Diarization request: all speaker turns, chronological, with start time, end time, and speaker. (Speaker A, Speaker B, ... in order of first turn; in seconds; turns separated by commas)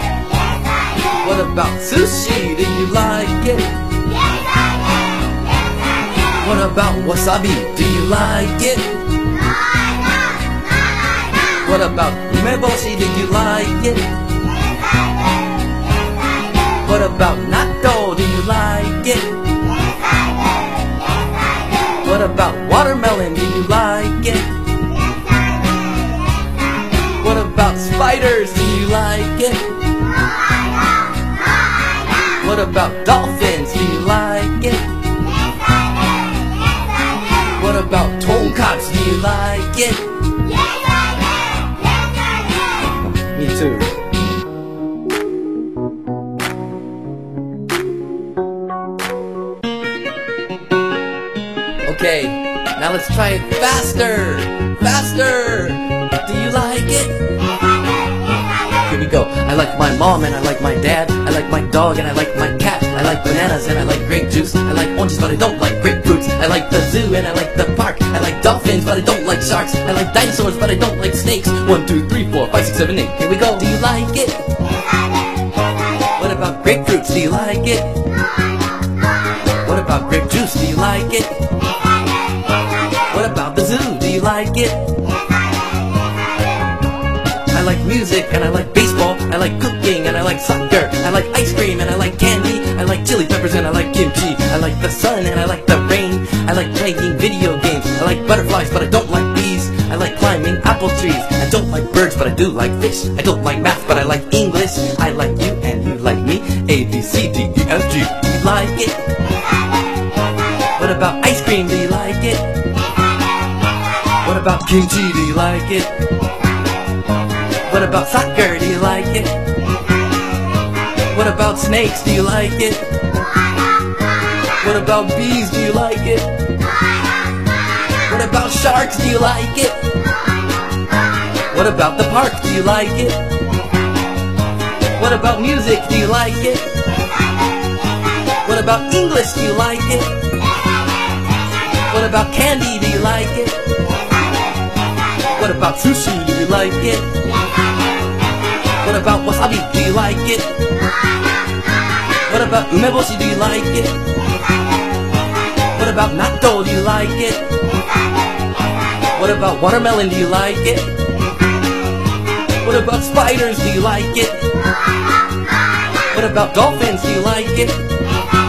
Speaker A: 1.2-3.7, Speaker A: 6.4-9.0, Speaker A: 11.6-14.1, Speaker A: 16.8-19.4, Speaker A: 22.0-24.5, Speaker A: 27.2-29.7, Speaker A: 32.4-34.9, Speaker A: 37.5-40.1, Speaker A: 43.3-43.9, Speaker A: 51.9-57.1, Speaker A: 58.9-74.4, Speaker A: 76.2-77.9, Speaker A: 79.6-81.3, Speaker A: 83.1-84.9, Speaker A: 87.5-109.0, Speaker A: 110.8-112.5, Speaker A: 114.2-116.0, Speaker A: 117.7-119.4, Speaker A: 121.1-122.8, Speaker A: 124.6-126.3, Speaker A: 128.1-129.8, Speaker A: 131.5-133.2, Speaker A: 135.0-136.7, Speaker A: 138.4-140.2, Speaker A: 141.9-143.6, Speaker A: 145.3-147.1, Speaker A: 148.8-150.6, Speaker A: 152.3-154.0, Speaker A: 155.7-157.5, Speaker A: 159.1-160.9, Speaker A: 162.6-164.4, Speaker A: 166.1-167.8